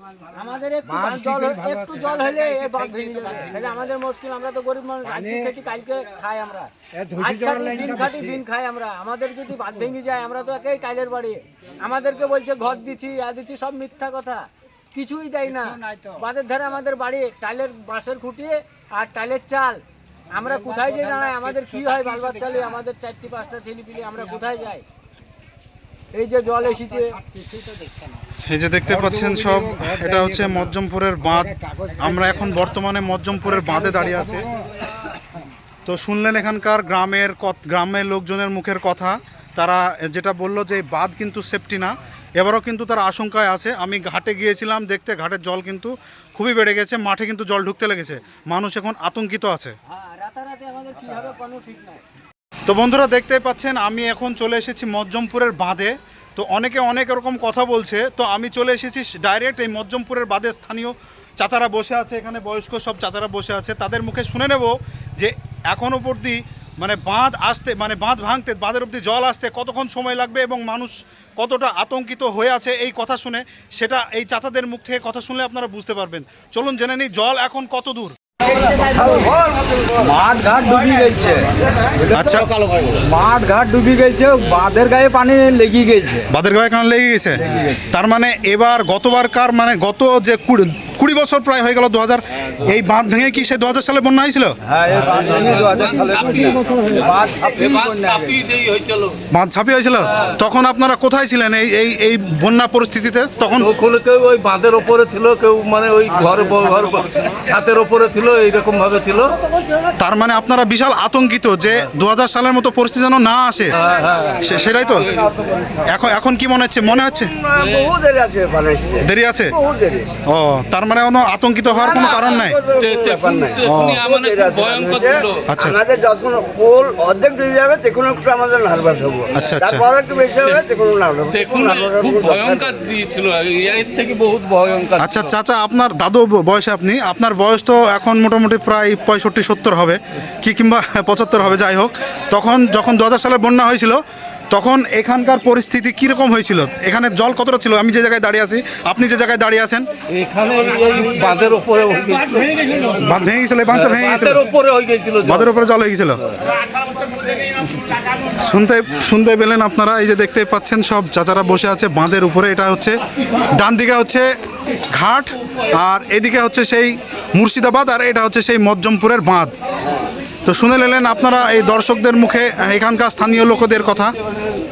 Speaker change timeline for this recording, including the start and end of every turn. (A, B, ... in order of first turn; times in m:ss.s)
0:00.3-0:19.8 A
0:00.8-0:02.2 B
0:05.0-0:05.5 B
0:06.9-0:08.4 B
0:20.3-0:24.8 A
0:26.1-0:27.2 A
0:28.4-0:34.5 C
0:28.9-0:30.6 B
0:35.8-0:49.8 C
0:49.9-0:52.0 A
0:52.6-1:18.2 C
1:20.2-1:20.9 B
1:20.9-1:21.5 A
1:22.1-1:22.5 C
1:23.0-1:24.8 B
1:23.8-1:26.2 A
1:26.3-1:34.6 C
1:35.0-1:39.2 D
1:39.3-1:43.7 C
1:43.6-1:49.4 D
1:50.0-1:53.7 C
1:53.8-1:54.6 D
1:54.4-1:55.1 C
1:55.3-1:55.7 E
1:55.9-1:57.3 C
1:57.4-2:00.1 E
1:57.6-1:57.9 D
1:59.0-1:59.5 C
2:00.2-2:02.6 C
2:01.7-2:12.9 E
2:02.7-2:05.5 D
2:03.6-2:04.0 C
2:05.5-2:05.8 C
2:09.3-2:09.9 C
2:11.3-2:15.3 D
2:15.0-2:29.9 C
2:30.1-2:33.0 D
2:33.0-2:34.4 C
2:33.7-2:35.6 D
2:35.2-2:36.2 C
2:37.9-2:44.2 C
2:44.9-2:49.5 C
2:50.4-2:54.1 C